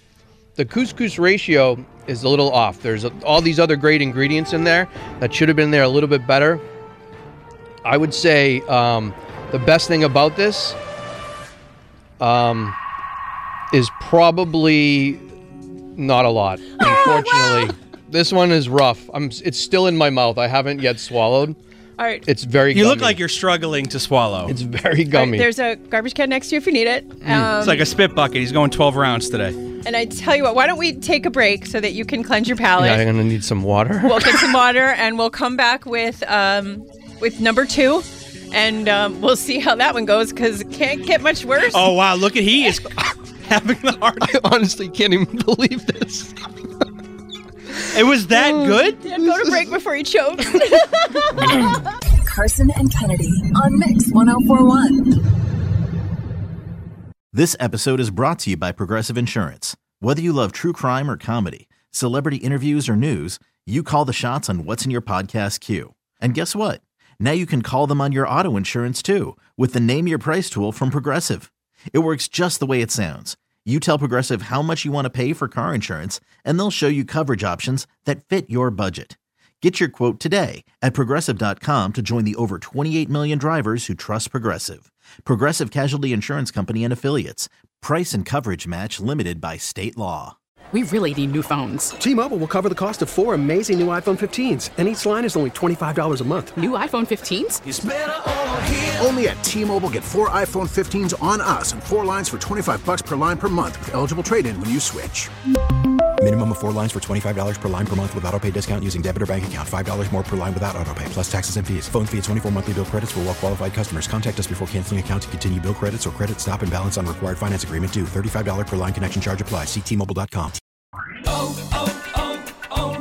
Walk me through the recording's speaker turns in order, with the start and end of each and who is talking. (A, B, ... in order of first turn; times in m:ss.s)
0:00.6-0:06.6 A
0:07.8-0:10.8 A
0:12.2-0:12.8 A
0:13.7-0:15.2 A
0:16.0-0:21.6 A
0:16.8-0:17.2 B
0:22.0-0:22.3 B
0:22.2-0:23.2 A
0:22.7-0:24.5 C
0:24.5-0:25.5 A
0:25.1-0:27.9 B
0:27.2-0:27.5 A
0:27.6-0:29.6 C
0:29.8-0:33.1 B
0:32.8-0:34.6 A
0:34.0-0:41.9 B
0:41.6-0:44.3 C
0:44.2-0:46.3 A
0:47.9-0:49.0 C
0:48.3-0:51.6 B
0:52.2-0:54.9 D
0:57.3-1:30.4 E
1:30.7-1:32.0 F
1:32.0-1:36.6 G
1:36.5-1:37.6 F
1:38.8-1:45.3 H
1:46.2-2:00.6 I